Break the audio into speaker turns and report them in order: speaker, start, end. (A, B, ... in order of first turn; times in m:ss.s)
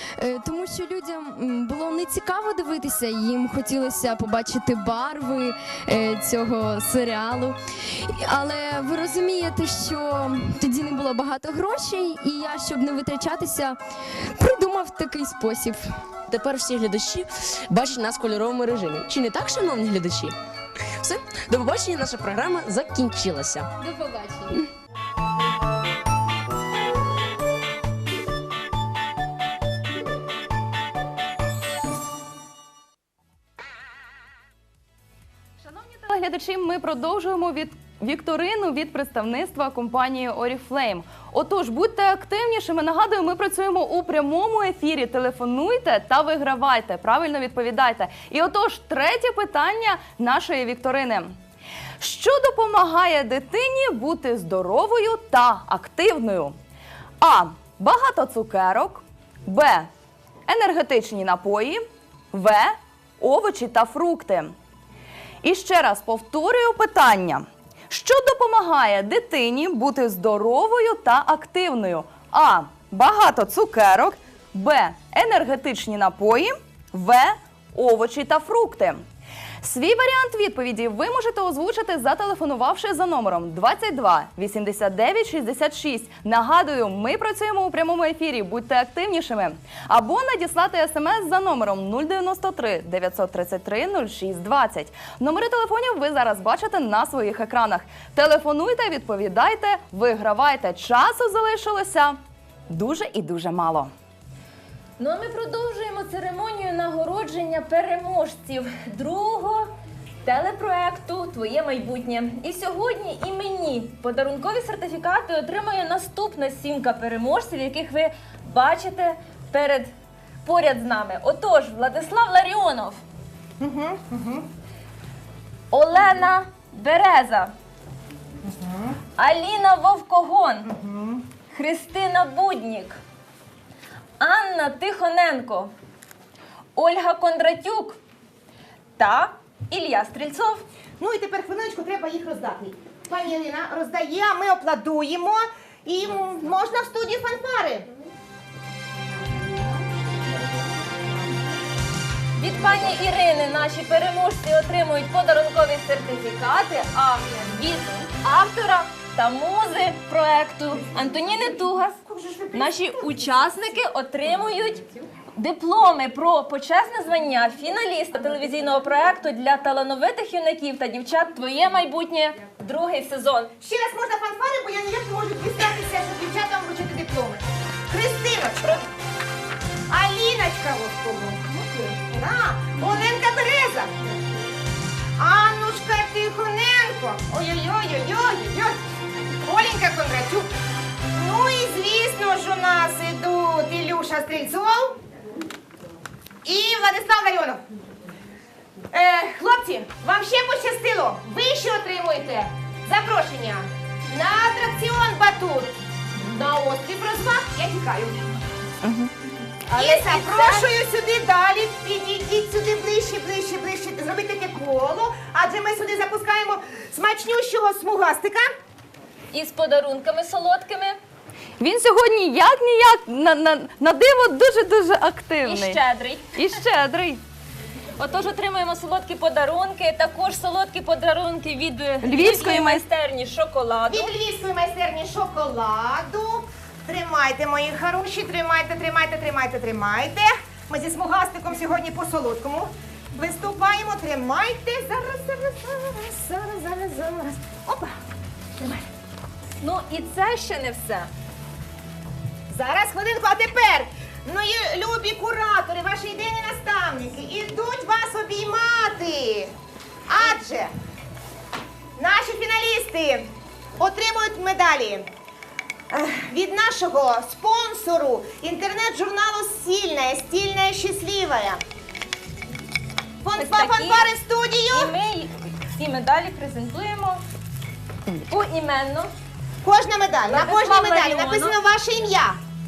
0:00.2-0:13.8 A
0:14.4-0:15.9 A
0:16.3-0:20.4 B
0:21.0-0:23.7 B
0:23.8-0:24.6 A
0:35.6-0:51.4 C
0:52.0-0:56.6 C
0:57.2-0:59.9 C
1:00.5-1:04.5 C
1:05.4-1:19.0 C
1:19.6-1:42.2 C
1:42.7-1:43.9 C
1:45.0-1:49.7 D
1:50.2-1:59.9 D
2:00.4-2:03.0 D
2:03.6-2:04.5 E
2:05.7-2:07.5 D
2:08.4-2:09.0 E
2:09.2-2:10.7 D
2:10.6-2:11.2 E
2:11.5-2:13.0 D
2:14.2-2:15.7 D
2:16.8-2:18.0 D
2:19.0-2:20.6 D
2:21.0-2:27.9 E
2:32.4-2:42.0 D
2:42.0-2:43.1 E
2:42.5-2:53.5 D
2:53.6-2:58.8 E
2:59.9-3:01.4 E
3:02.1-3:03.9 E
3:05.2-3:08.8 E
3:09.4-3:10.5 E
3:11.1-3:15.0 E
3:16.4-3:17.6 E
3:18.9-3:28.3 E
3:28.8-3:29.1 C
3:29.7-3:30.7 D
3:29.7-3:38.5 E
3:39.3-3:41.0 D
3:41.6-3:45.8 C
3:45.4-3:46.4 D
3:46.3-3:47.2 C
3:48.0-3:54.1 D
3:52.0-3:52.8 C
3:53.9-4:07.9 E
4:08.6-4:08.8 E
4:09.6-4:11.1 D
4:12.5-4:19.5 E
4:20.1-4:20.7 E
4:22.0-4:25.0 E
4:25.9-4:31.6 E
4:33.2-4:34.9 E
4:33.4-4:34.1 D
4:34.7-4:37.2 D
4:38.3-4:39.1 D
4:39.6-4:42.4 E
4:40.3-4:41.6 D